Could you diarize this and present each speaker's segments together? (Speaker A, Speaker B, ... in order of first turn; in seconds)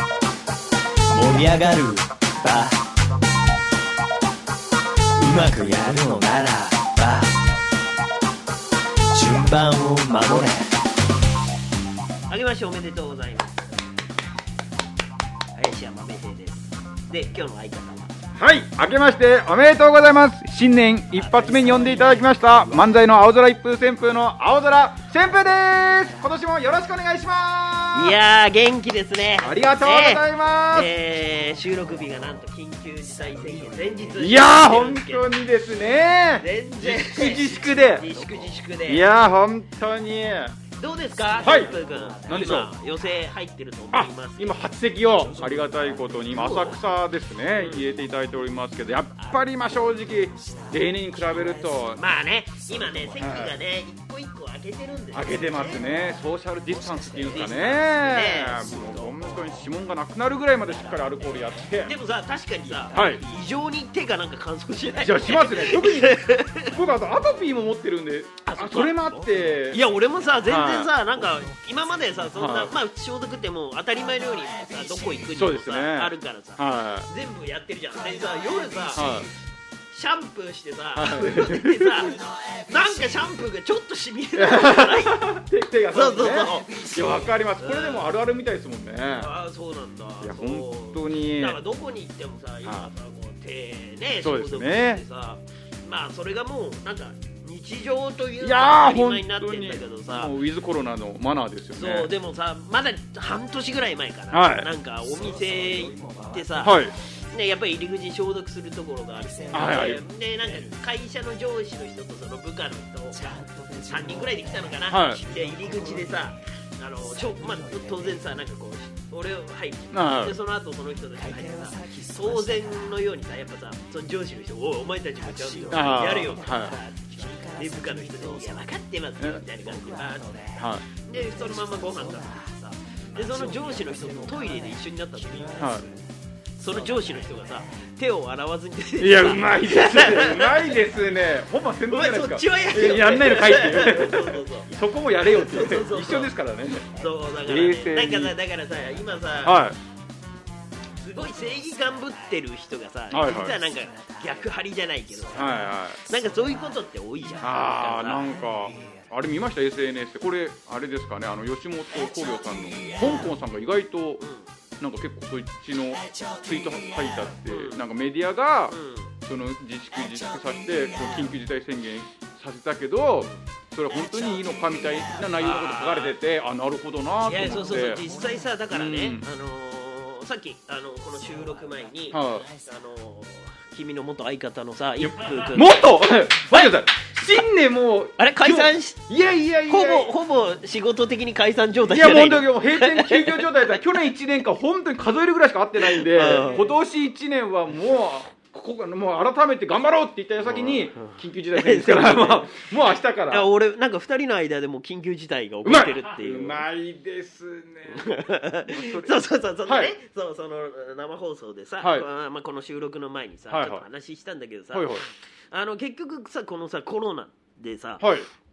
Speaker A: 1.1-2.8, 5.2-7.3, 9.1-10.7, 33.5-34.1, 38.1-38.4, 41.2-42.1, 105.2-106.7, 109.5-109.8, 113.2-114.4, 115.3-116.2, 117.3-118.2, 121.3-123.0, 125.3-128.7, 129.6-130.5, 131.2-132.3, 133.2-135.8, 136.7-137.3
Speaker B: 12.3-13.8, 15.6-18.1, 21.2-22.4, 27.9-35.3, 36.4-39.1, 40.8-44.5, 46.3-46.8, 47.5-47.9, 51.9-55.8, 57.3-59.1, 61.8-66.8, 68.4-79.3, 79.9-85.3, 85.9-86.9, 87.6-88.1, 89.1-100.3, 101.7-136.0, 136.6-140.8, 141.9-146.3, 146.9-149.6, 151.0-158.3, 164.2-164.5, 167.5-167.8, 168.7-169.2, 175.4-176.2, 177.2-185.8, 186.5-186.8, 188.2-189.0, 189.7-193.8, 195.8-196.7, 200.5-202.6, 203.3-206.7, 207.9-218.1
Speaker C: 18.4-28.2, 29.4-30.9, 34.2-38.1, 38.9-40.6, 41.4-42.7, 43.9-52.0, 52.7-53.6, 55.1-62.0, 62.9-63.2, 65.0-69.9, 70.4-71.0, 72.3-72.7, 75.3-77.1, 78.9-79.3, 81.0-82.2, 84.4-89.3, 90.2-91.6, 92.6-92.9, 94.2-95.0, 98.4-102.1, 104.3-104.7, 106.6-106.9, 109.5-110.0, 114.9-115.2, 119.9-120.4, 125.7-126.8, 129.2-129.4, 130.5-130.8, 135.6-135.8, 139.0-148.4, 149.4-149.8, 153.1-153.6, 155.3-156.0, 157.4-164.2, 164.8-178.0, 178.7-179.2, 182.1-182.5, 185.0-190.1, 191.9-203.5, 205.6-209.9, 211.8-212.1, 213.5-213.8, 214.7-215.0, 218.0-218.3